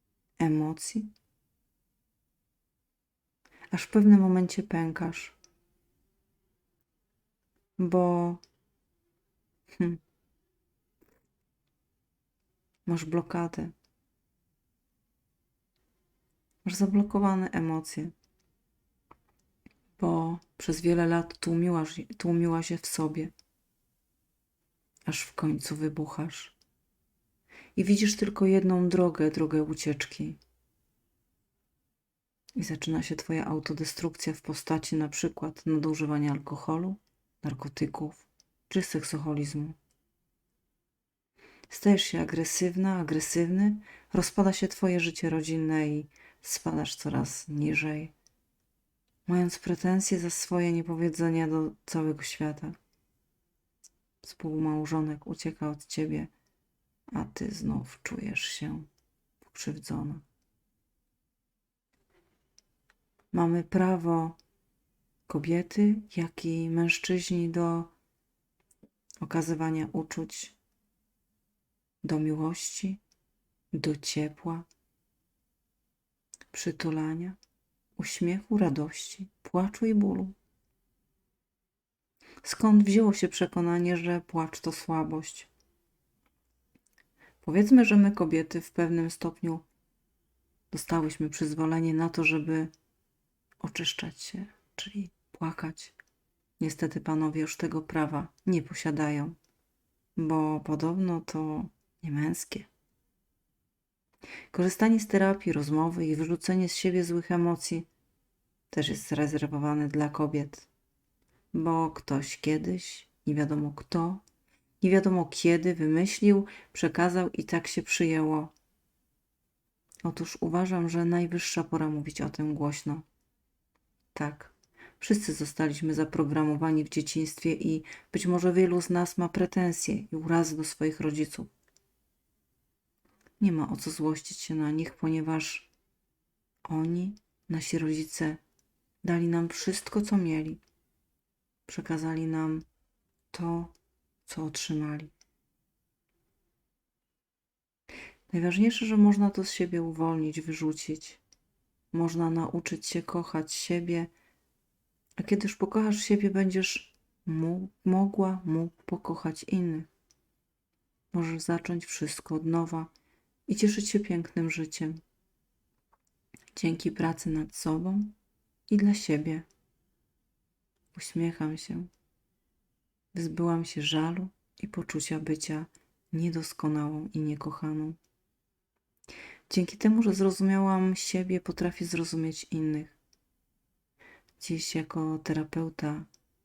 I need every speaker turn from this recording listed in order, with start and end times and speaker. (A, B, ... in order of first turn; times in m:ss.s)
0:00.4-0:01.1 A
0:03.7-0:05.4 A
0:07.8-0:08.4 A
0:12.8-0:13.7 A
0:16.6-0:18.1 A
0:20.0-0:23.3 A
0:25.1-0:26.6 A
0:27.8-0:30.4 A
0:32.6-0:39.8 A
0:41.7-0:48.1 A
0:49.2-0:52.8 A
0:54.2-0:56.3 A
0:57.1-0:58.9 A
0:59.4-1:00.2 A
1:03.3-1:04.4 A
1:05.3-1:07.9 A
1:09.2-1:10.6 A
1:12.0-1:13.0 A
1:13.7-1:14.7 A
1:16.5-1:17.4 A
1:18.0-1:20.3 A
1:22.4-1:25.5 A
1:27.4-1:29.6 A
1:30.7-1:32.7 A
1:33.6-1:35.9 A
1:36.6-1:39.4 A
1:40.2-1:42.7 A
1:44.5-1:47.9 A
1:48.7-1:50.7 A
1:51.5-1:54.2 A
1:54.8-1:58.5 A
2:00.0-2:03.0 A
2:04.1-2:11.5 A
2:13.4-2:15.7 A
2:16.6-2:18.4 A
2:19.0-2:20.6 A
2:21.7-2:22.6 A
2:23.3-2:23.7 A
2:24.2-2:25.1 A
2:28.3-2:31.2 A
2:31.9-2:34.1 A
2:35.2-2:39.9 A
2:41.1-2:42.9 A
2:43.5-2:45.0 A
2:46.5-2:48.1 A
2:48.7-2:49.5 A
2:50.9-2:51.9 A
2:53.1-2:58.0 A
2:59.5-3:03.0 A
3:04.4-3:06.1 A